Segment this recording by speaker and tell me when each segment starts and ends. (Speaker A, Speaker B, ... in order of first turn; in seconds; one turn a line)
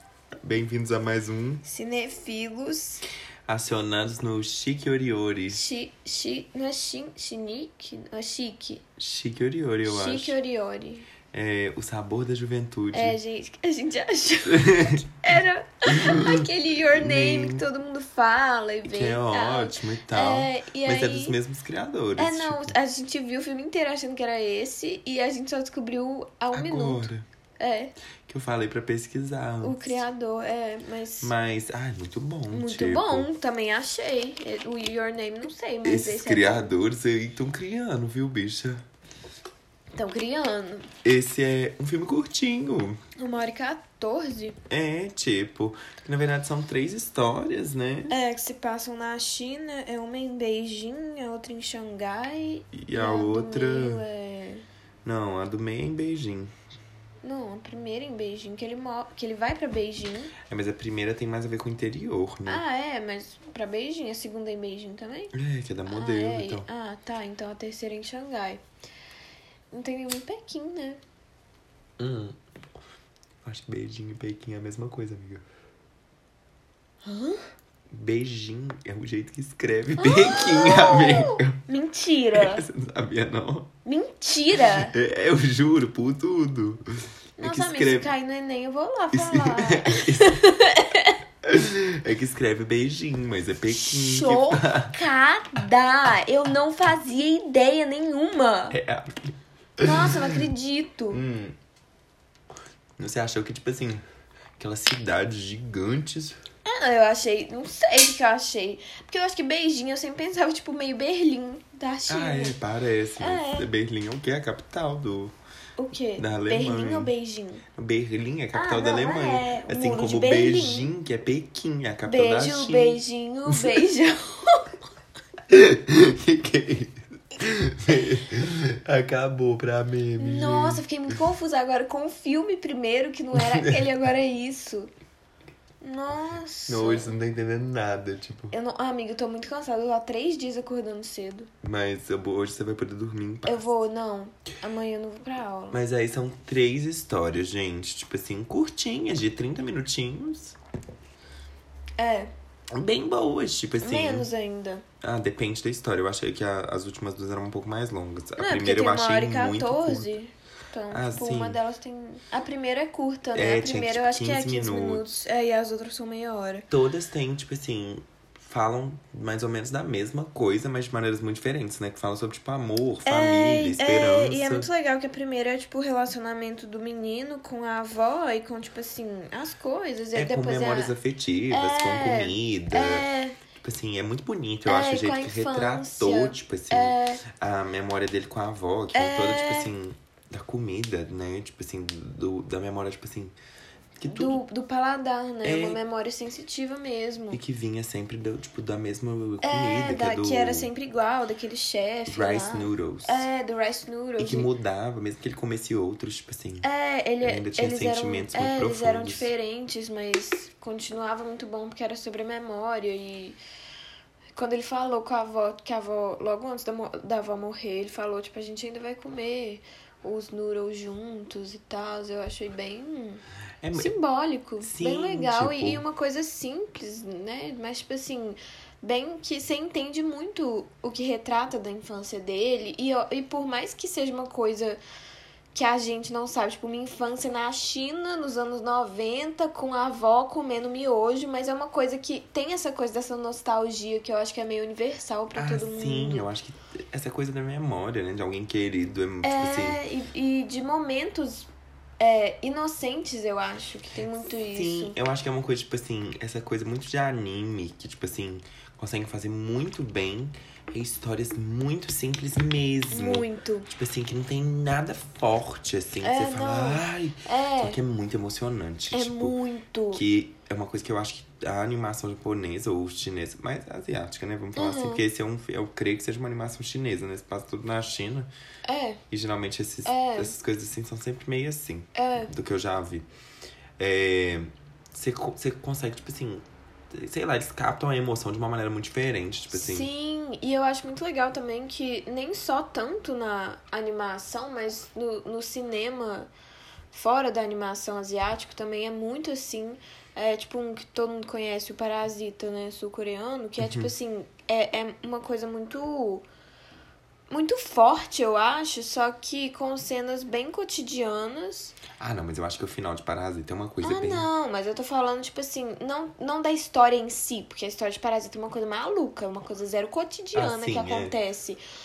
Speaker A: 0.4-1.6
Speaker B: 1.6-3.0
Speaker A: 3.5-5.6
Speaker B: 5.5-8.8
Speaker A: 9.0-10.4
Speaker B: 9.8-11.1
Speaker A: 11.3-13.2
Speaker B: 12.9-21.4
Speaker A: 14.4-15.1
Speaker A: 15.9-17.6
Speaker A: 18.9-22.8
Speaker B: 22.2-27.9
Speaker A: 26.5-27.2
Speaker A: 28.3-30.0
Speaker B: 29.6-31.3
Speaker A: 31.2-33.3
Speaker B: 32.5-36.7
Speaker A: 35.8-38.8
Speaker B: 39.9-40.9
Speaker A: 41.0-43.0
Speaker B: 43.2-44.6
Speaker A: 44.7-48.1
Speaker B: 48.1-54.6
Speaker A: 52.7-54.0
Speaker A: 55.0-56.5
Speaker B: 57.2-60.3
Speaker A: 60.5-62.6
Speaker B: 62.5-65.3
Speaker A: 65.3-66.7
Speaker B: 65.9-68.6
Speaker B: 69.7-71.0
Speaker A: 72.0-72.4
Speaker A: 73.4-75.4
Speaker B: 77.0-77.4
Speaker A: 77.9-81.6
Speaker B: 80.0-82.6
Speaker A: 82.3-83.7
Speaker B: 83.8-84.9
Speaker A: 84.6-86.8
Speaker B: 87.4-91.2
Speaker A: 87.4-88.1
Speaker A: 89.1-90.4
Speaker A: 91.4-95.0
Speaker B: 93.7-98.8
Speaker A: 98.7-100.5
Speaker B: 99.8-101.2
Speaker A: 101.1-101.5
Speaker A: 103.0-104.0
Speaker A: 104.6-106.4
Speaker B: 106.6-112.5
Speaker A: 112.1-115.3
Speaker B: 113.2-113.7
Speaker B: 115.8-117.6
Speaker A: 116.2-117.1
Speaker A: 117.7-123.7
Speaker B: 118.5-120.9
Speaker B: 122.0-124.8
Speaker A: 125.5-130.8
Speaker B: 130.2-134.9
Speaker A: 133.3-133.9
Speaker B: 135.8-137.1
Speaker A: 136.7-138.5
Speaker B: 138.5-141.5
Speaker A: 141.6-143.7
Speaker B: 143.4-145.8
Speaker A: 145.7-150.6
Speaker B: 152.0-152.3
Speaker A: 152.7-154.3
Speaker B: 153.8-154.8
Speaker A: 155.0-160.1
Speaker B: 158.4-166.7
Speaker A: 160.9-161.6
Speaker A: 163.3-165.2
Speaker A: 166.7-174.7
Speaker B: 173.1-180.9
Speaker A: 180.1-183.1
Speaker B: 181.5-183.4
Speaker A: 183.6-193.3
Speaker B: 184.7-187.2
Speaker B: 188.9-189.7
Speaker A: 194.0-194.4
Speaker B: 194.1-197.4
Speaker A: 195.4-195.8
Speaker A: 197.3-200.7
Speaker B: 199.4-204.5
Speaker A: 202.1-203.2
Speaker A: 204.2-206.7
Speaker B: 206.6-213.4
Speaker A: 207.2-209.3
Speaker B: 214.3-223.2
Speaker A: 223.6-223.9
Speaker B: 223.7-234.8
Speaker A: 224.6-225.8
Speaker B: 235.5-246.3
Speaker A: 245.3-249.8
Speaker B: 249.2-251.5
Speaker B: 252.0-254.9
Speaker A: 254.5-269.4
Speaker B: 262.9-263.7
Speaker B: 266.0-267.8
Speaker B: 268.9-270.0
Speaker A: 269.9-278.3
Speaker B: 274.6-275.0
Speaker B: 278.6-279.0
Speaker A: 279.1-283.1
Speaker B: 279.8-280.3
Speaker B: 281.9-282.3
Speaker A: 283.8-289.9
Speaker B: 289.5-296.3
Speaker B: 296.9-306.2
Speaker A: 303.6-303.9
Speaker B: 307.3-311.8
Speaker A: 312.0-314.3
Speaker B: 313.8-321.6
Speaker A: 320.3-321.1